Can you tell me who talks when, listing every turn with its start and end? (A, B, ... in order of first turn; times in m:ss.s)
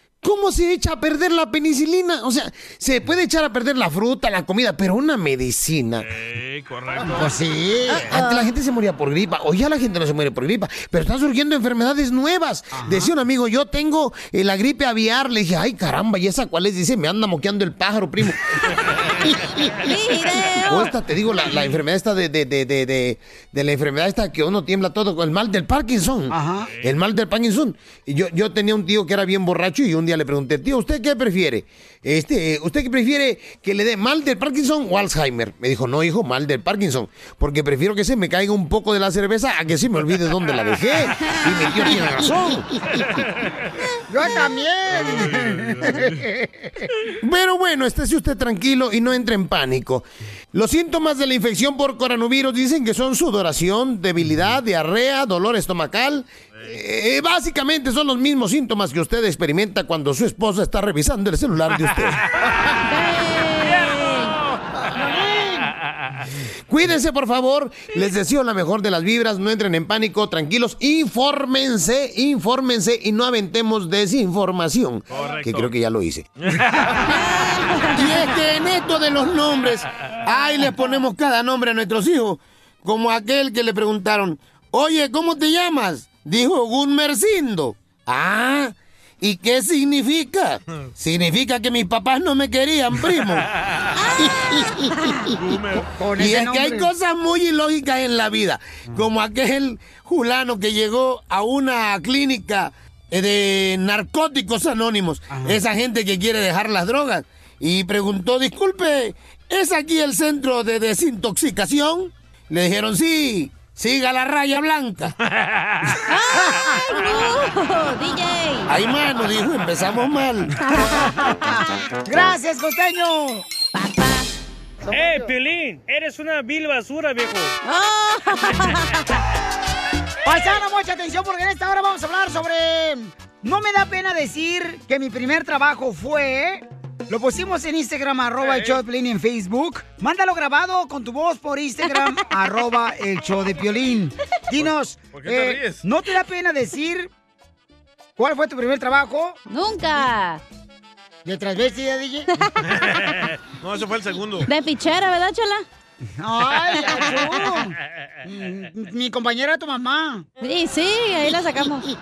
0:00.2-0:06.1 A
0:06.0-0:07.3 B
0:07.0-0:08.1 C
0:08.0-0:08.5 D
0:08.1-0:18.4 A
0:12.7-0:13.1 C
0:19.8-0:20.9 D
0:20.7-0:42.7 A
0:26.3-0:26.7 C
0:44.1-0:46.9 C
0:45.0-0:46.1 B
0:47.2-1:02.2 A
1:02.8-1:04.4 D
1:03.6-1:04.6 B
1:04.9-1:05.7 C
1:06.7-1:16.3 A
1:15.1-1:15.7 B
1:16.4-1:17.2 B
1:17.1-1:18.3 D
1:17.9-1:33.5 A
1:34.0-1:35.2 D
1:34.2-1:34.9 A
1:35.3-1:35.9 B
1:36.0-1:36.9 C
1:36.2-1:55.1 A
1:45.3-1:45.6 C
1:55.3-1:55.8 B
1:56.1-1:58.7 D
1:58.7-2:00.6 A
2:00.6-2:01.6 D
2:02.0-2:03.4 C
2:03.7-2:04.3 D
2:04.9-2:07.6 E
2:07.6-2:09.1 D
2:10.2-2:27.1 C
2:18.4-2:18.8 B
2:24.6-2:25.8 B
2:28.2-2:29.4 C
2:29.5-2:30.4 D
2:31.2-2:32.4 C
2:32.6-2:34.5 B
2:34.5-2:35.6 D
2:36.2-2:40.3 C
2:36.8-2:37.5 D
2:40.4-2:41.9 D